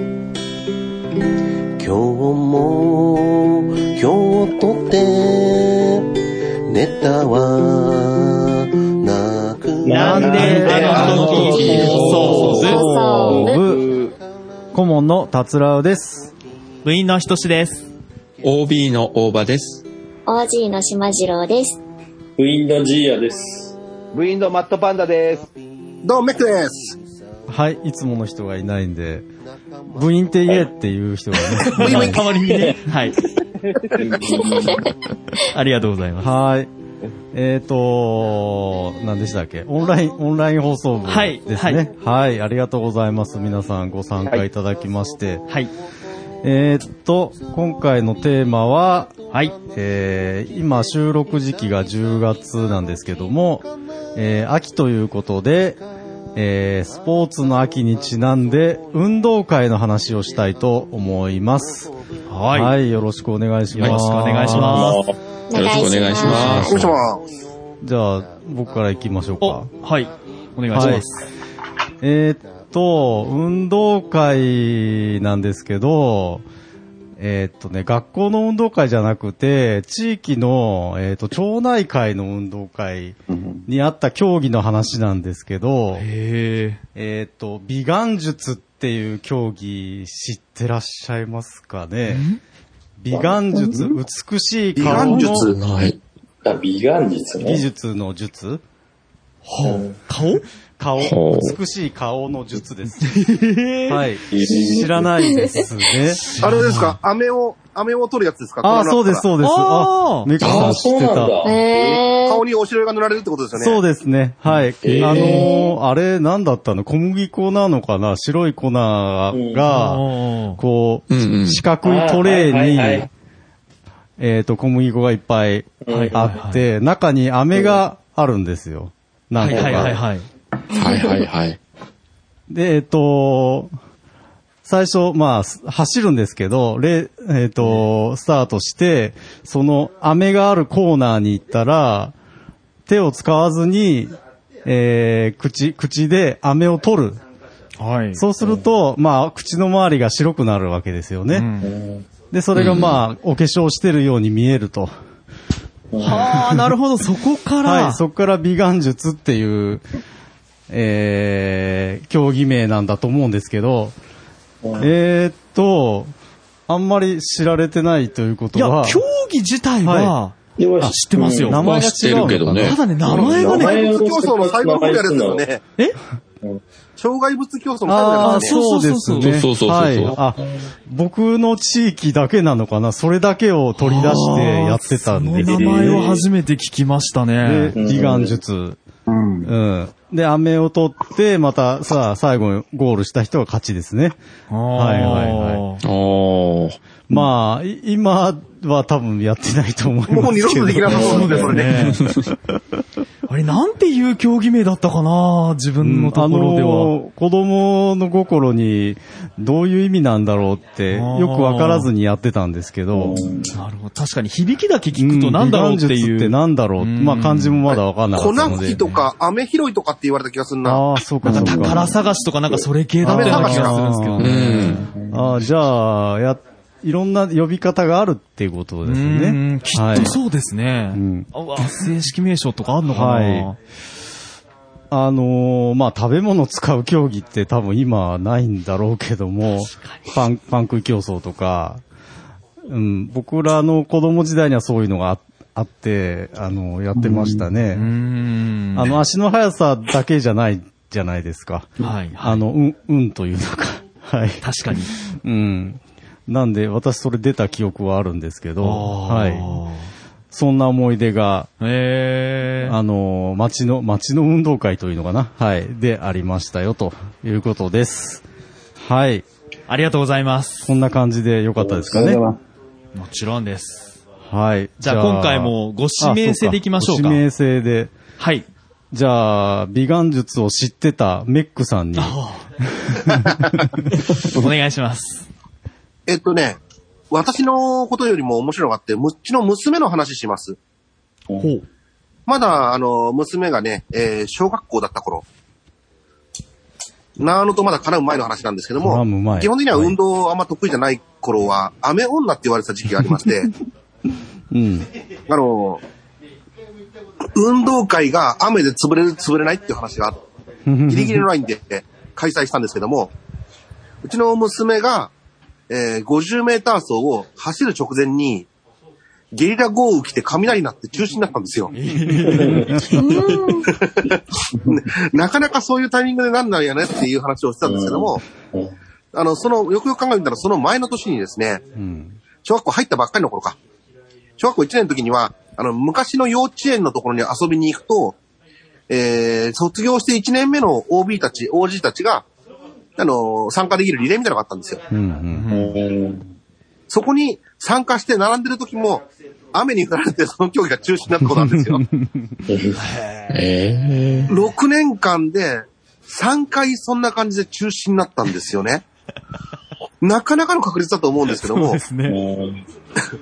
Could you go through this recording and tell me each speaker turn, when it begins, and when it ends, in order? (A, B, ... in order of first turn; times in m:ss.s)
0:01.8-0:06.1 A
0:06.7-0:10.4 A
0:09.8-0:10.2 B
0:09.9-0:12.8 C
0:10.0-0:14.1 D
0:10.0-0:13.8 E
0:10.4-0:12.7 F
0:11.0-0:12.8 B
0:12.6-0:13.6 G
0:14.7-0:16.3 E
0:16.8-0:17.9 C
0:18.4-0:19.8 F
0:20.2-0:21.8 G
0:22.4-0:23.8 B
0:24.1-0:25.5 D
0:26.0-0:27.0 H
0:27.5-0:29.3 E
0:29.9-0:32.3 E
0:31.6-0:33.2 C
0:31.8-0:32.3 H
0:32.5-0:32.8 B
0:33.6-0:34.8 D
0:34.5-0:34.8 G
0:35.4-0:36.3 C
0:36.2-0:36.7 E
0:37.3-0:45.4 E
0:41.0-0:41.9 C
0:46.4-0:49.1 E
0:49.3-0:49.6 C
0:49.7-0:55.8 E
0:56.4-1:01.9 E
1:02.3-1:02.7 C
1:02.5-1:05.0 E
1:03.7-1:05.0 C
1:04.7-1:05.1 B
1:05.5-1:06.7 G
1:05.5-1:07.0 F
1:06.2-1:07.2 H
1:06.4-1:06.8 E
1:07.8-1:09.7 E
1:09.4-1:11.2 C
1:10.7-1:11.1 E
1:12.0-1:16.4 E
1:17.2-1:26.1 E
1:26.0-1:26.8 C
1:26.9-1:32.2 E
1:32.1-1:32.4 C
1:33.0-1:35.5 E
1:34.8-1:35.6 H
1:34.8-1:36.0 F
1:36.4-1:37.6 B
1:37.4-1:38.6 E
1:39.4-1:40.4 C
1:39.6-1:40.0 B
1:40.8-1:43.2 E
1:41.0-1:41.6 F
1:43.0-1:44.1 C
1:43.9-1:46.3 E
1:44.3-1:45.0 B
1:45.2-1:45.6 G
1:46.3-1:47.0 C
1:46.4-1:49.2 H
1:48.6-1:51.4 E
1:49.4-1:50.3 C
1:50.4-1:50.7 F
1:50.4-1:52.0 B
1:51.4-1:52.4 G
1:52.2-1:53.8 H
1:53.6-2:03.1 E
1:54.8-1:55.4 B
1:55.2-1:55.7 G
1:59.3-1:59.6 B
1:59.7-2:00.6 C
2:01.1-2:01.6 F
2:01.8-2:03.1 B
2:04.2-2:10.0 E
2:05.8-2:06.2 B
2:05.9-2:06.6 C
2:09.4-2:10.2 C
2:09.5-2:09.9 B
2:10.7-2:11.6 F
2:12.5-2:13.7 E
2:14.6-2:22.1 E
2:22.9-2:27.2 E
2:27.8-2:28.2 C
2:28.1-2:31.4 E
2:31.3-2:31.7 C
2:31.6-2:32.0 B
2:32.3-2:34.9 E
2:32.5-2:33.0 C
2:35.9-2:36.3 B
2:36.0-2:38.0 C
2:37.6-2:39.8 E
2:40.7-2:44.0 E
2:44.8-2:46.1 E
2:46.7-2:49.0 E
2:48.5-2:53.8 C
2:49.8-2:50.2 E
2:50.6-2:51.5 B
2:51.5-2:52.8 E
2:51.6-2:52.8 F
2:53.0-2:55.6 H
2:53.3-2:55.4 B
2:57.0-2:58.5 H
2:57.8-3:06.0 E
2:58.2-2:59.4 C
2:59.1-3:00.2 F
3:03.8-3:07.7 C
3:05.4-3:06.2 B
3:07.4-3:08.8 E
3:07.8-3:08.3 B
3:09.1-3:09.5 D
3:09.4-3:14.2 E
3:14.5-3:15.8 C
3:14.7-3:15.6 E
3:15.8-3:16.8 F
3:17.1-3:21.9 E
3:20.1-3:22.0 H
3:20.9-3:22.1 C
3:23.3-3:26.9 C
3:25.8-3:33.2 E
3:30.9-3:31.9 C
3:33.0-3:33.4 B
3:33.5-3:37.8 C
3:35.0-3:38.9 E
3:38.1-3:40.8 H
3:38.5-3:39.0 C
3:40.6-3:41.9 E
3:41.2-3:44.9 C
3:43.0-3:50.2 E
3:43.0-3:43.8 H
3:44.2-3:44.9 F
3:48.8-3:53.6 C
3:50.9-3:51.7 E
3:52.8-3:53.5 E
3:54.9-4:01.8 E
4:02.6-4:07.9 E
4:07.0-4:07.4 D
4:07.7-4:09.0 C
4:08.7-4:14.4 E
4:11.8-4:12.4 C
4:14.4-4:14.9 C
4:15.0-4:19.6 E
4:18.6-4:19.9 C
4:20.3-4:21.5 E
4:21.6-4:22.8 C
4:22.6-4:28.2 E
4:28.8-4:29.2 E
4:29.7-4:30.7 C
4:30.6-4:32.2 E
4:31.6-4:32.4 D
4:32.9-4:34.0 C
4:34.3-4:37.9 E
4:34.8-4:37.2 C
4:38.2-4:38.4 C
4:38.9-4:42.2 E
4:42.0-4:42.4 C
4:42.9-4:43.4 E
4:43.9-4:45.3 C
4:46.1-4:46.6 H
4:47.1-4:50.6 H
4:51.3-4:51.6 C
4:52.3-4:55.2 H
4:57.2-5:03.5 H
4:58.8-5:00.0 E
5:04.5-5:04.9 E
5:05.3-5:05.8 H
5:07.3-5:10.2 H
5:10.7-5:11.2 E
5:10.9-5:13.1 H
5:14.0-5:15.1 H
5:15.7-5:18.5 H
5:19.3-5:21.7 H
5:21.7-5:23.2 C
5:22.2-5:22.8 E
5:22.3-5:22.6 B
5:22.9-5:23.7 G
5:23.7-5:28.2 H
5:27.6-5:28.7 B
5:29.1-5:31.6 H
5:31.7-5:32.2 E
5:32.4-5:33.6 H
5:34.4-5:38.2 H
5:38.9-5:42.2 H
5:43.0-5:44.8 H
5:44.9-5:45.5 E
5:45.3-5:45.8 C
5:45.6-5:46.2 B
5:46.9-5:51.8 H
5:51.2-5:52.4 E
5:52.7-5:53.4 C
5:53.3-5:54.3 F
5:54.3-5:58.8 H
6:00.0-6:01.8 H
6:01.3-6:02.2 C
6:02.1-6:02.6 B